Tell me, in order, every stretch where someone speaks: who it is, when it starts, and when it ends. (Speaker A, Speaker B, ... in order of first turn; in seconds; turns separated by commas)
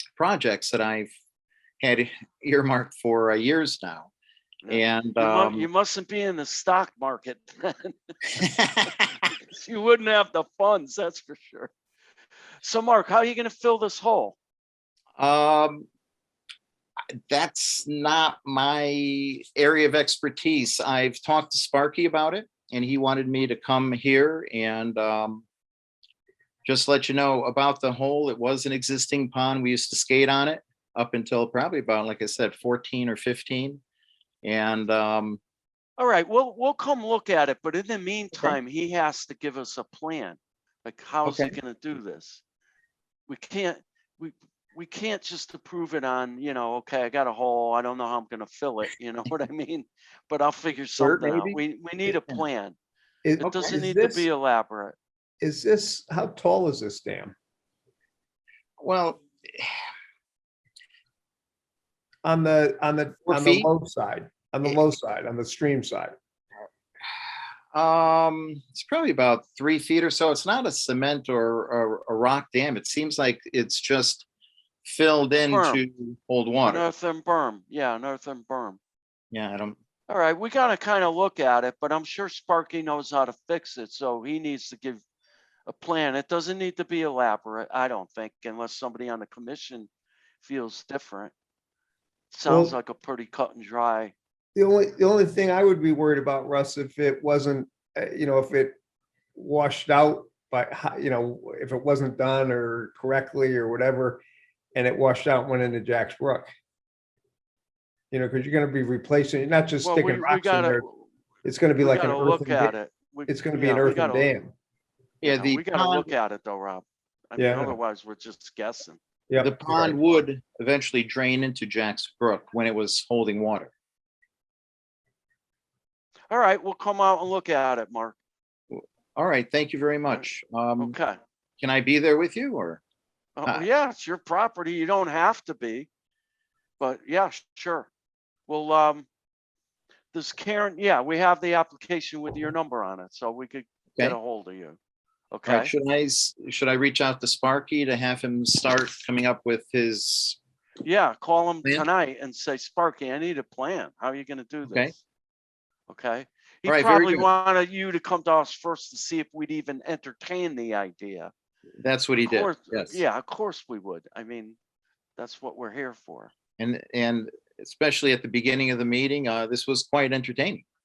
Speaker A: 0.2-1.1, Speaker A: 1.8-4.1, Speaker B: 4.6-8.0, Speaker A: 4.7-5.7, Speaker A: 8.4-8.9, Speaker B: 9.3-11.7, Speaker B: 12.6-14.4, Speaker A: 15.2-15.9, Speaker A: 17.3-25.4, Speaker A: 26.6-33.8, Speaker A: 34.4-35.4, Speaker B: 36.0-42.4, Speaker A: 41.3-41.5, Speaker B: 43.3-52.8, Speaker A: 51.0-52.4, Speaker C: 53.2-54.2, Speaker B: 53.4-55.0, Speaker C: 55.4-57.3, Speaker A: 58.8-59.7, Speaker C: 62.2-66.1, Speaker A: 63.3-63.7, Speaker A: 67.7-74.2, Speaker A: 74.8-76.8, Speaker B: 75.5-75.8, Speaker B: 76.7-78.8, Speaker A: 79.3-79.8, Speaker B: 80.1-85.0, Speaker B: 85.7-89.9, Speaker B: 90.4-91.3, Speaker B: 92.3-94.1, Speaker C: 92.5-92.7, Speaker C: 94.6-98.8, Speaker C: 99.4-104.2, Speaker C: 104.8-106.5, Speaker C: 108.1-110.8, Speaker B: 109.8-111.0, Speaker C: 111.5-112.7, Speaker B: 111.8-114.3, Speaker C: 113.3-114.5, Speaker A: 115.2-116.1, Speaker B: 115.2-119.0, Speaker C: 117.4-117.8, Speaker C: 119.3-120.0, Speaker A: 119.4-123.7, Speaker B: 126.3-128.2, Speaker A: 128.7-130.9, Speaker B: 130.8-131.2, Speaker A: 131.6-132.8, Speaker B: 133.4-135.9, Speaker B: 136.8-137.9, Speaker B: 138.5-139.1, Speaker B: 140.1-144.8, Speaker B: 145.3-145.7, Speaker A: 145.5-150.4, Speaker B: 150.8-155.0, Speaker B: 155.9-161.3, Speaker A: 156.7-157.3, Speaker A: 161.8-163.0, Speaker B: 162.2-164.6, Speaker B: 165.2-166.3, Speaker A: 166.6-170.6